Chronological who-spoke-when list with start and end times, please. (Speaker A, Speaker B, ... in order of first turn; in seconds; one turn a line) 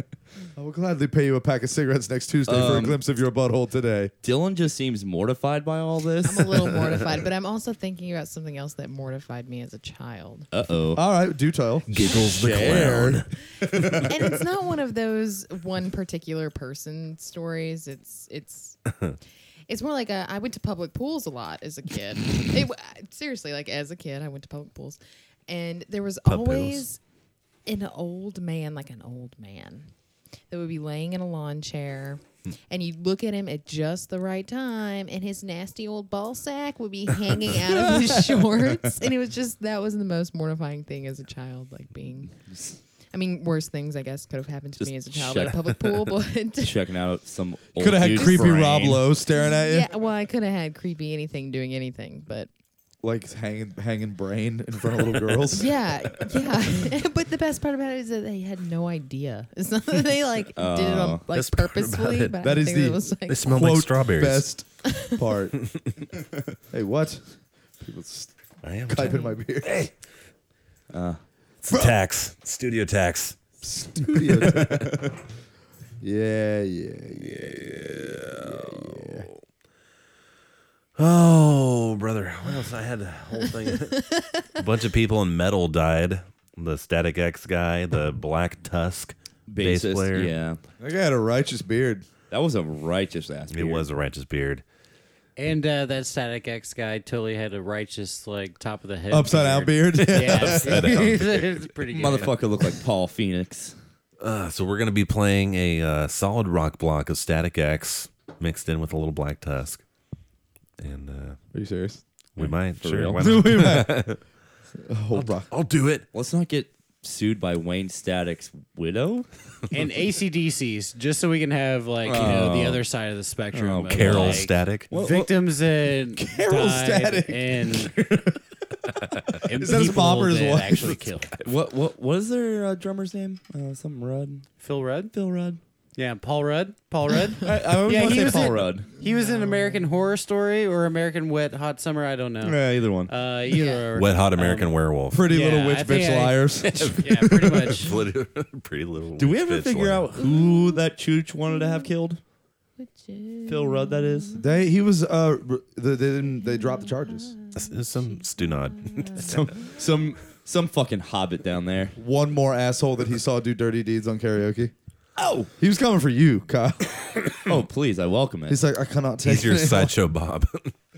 Speaker A: 0.6-4.1
Speaker B: 2.5-3.0
Speaker B: 4.2-6.7
Speaker C: 6.2-10.5
Speaker B: 10.5-11.0
Speaker A: 10.9-11.9
Speaker D: 11.9-13.3
Speaker B: 12.1-13.2
Speaker C: 14.1-18.8
Speaker C: 19.7-27.0
Speaker D: 26.2-26.8
Speaker C: 27.6-29.9
Speaker C: 30.5-42.4
Speaker B: 37.8-38.1
Speaker B: 42.5-42.8
Speaker C: 43.1-46.8
Speaker B: 44.8-49.1
Speaker A: 47.8-49.9
Speaker C: 48.1-48.5
Speaker C: 49.4-52.5
Speaker A: 53.0-55.7
Speaker C: 55.5-63.5
Speaker B: 60.5-61.2
Speaker D: 61.3-62.4
Speaker A: 62.4-65.6
Speaker D: 63.3-64.5
Speaker A: 66.7-69.8
Speaker D: 68.6-69.9
Speaker C: 69.0-69.3
Speaker B: 70.9-71.2
Speaker D: 71.6-73.4
Speaker A: 71.7-72.0
Speaker A: 73.6-75.1
Speaker A: 76.0-79.2
Speaker D: 77.4-79.3
Speaker D: 81.0-90.3
Speaker B: 89.5-90.6
Speaker A: 90.8-92.1
Speaker B: 92.3-93.8
Speaker D: 93.5-94.6
Speaker E: 95.4-102.7
Speaker A: 99.1-100.9
Speaker D: 100.1-101.6
Speaker B: 101.9-103.8
Speaker D: 104.2-109.8
Speaker D: 110.8-111.4
Speaker A: 111.5-112.0
Speaker D: 112.4-114.2
Speaker B: 112.4-113.4
Speaker A: 113.2-114.1
Speaker A: 114.8-115.5
Speaker D: 115.1-116.0
Speaker B: 116.1-119.3
Speaker E: 119.7-128.0
Speaker B: 122.0-122.8
Speaker B: 123.5-125.3
Speaker D: 123.9-124.9
Speaker A: 126.2-128.3
Speaker E: 129.4-131.3
Speaker A: 129.5-131.0
Speaker B: 131.4-134.5
Speaker E: 134.6-135.1
Speaker B: 135.1-135.6
Speaker E: 135.9-144.7
Speaker B: 137.4-138.9
Speaker C: 139.0-139.9
Speaker B: 142.4-143.1
Speaker C: 143.5-143.8
Speaker D: 143.9-145.2
Speaker A: 145.1-147.7
Speaker E: 145.2-147.9
Speaker D: 147.7-150.1
Speaker B: 149.2-152.2
Speaker C: 150.2-150.8
Speaker C: 151.5-151.9
Speaker C: 152.8-154.4
Speaker B: 153.4-154.3
Speaker A: 154.4-157.3
Speaker C: 156.4-159.3
Speaker D: 157.5-159.6
Speaker B: 159.2-161.9
Speaker A: 161.9-164.7
Speaker B: 165.2-165.5
Speaker A: 165.6-167.1
Speaker B: 167.5-168.6
Speaker A: 168.5-169.9
Speaker D: 169.2-170.7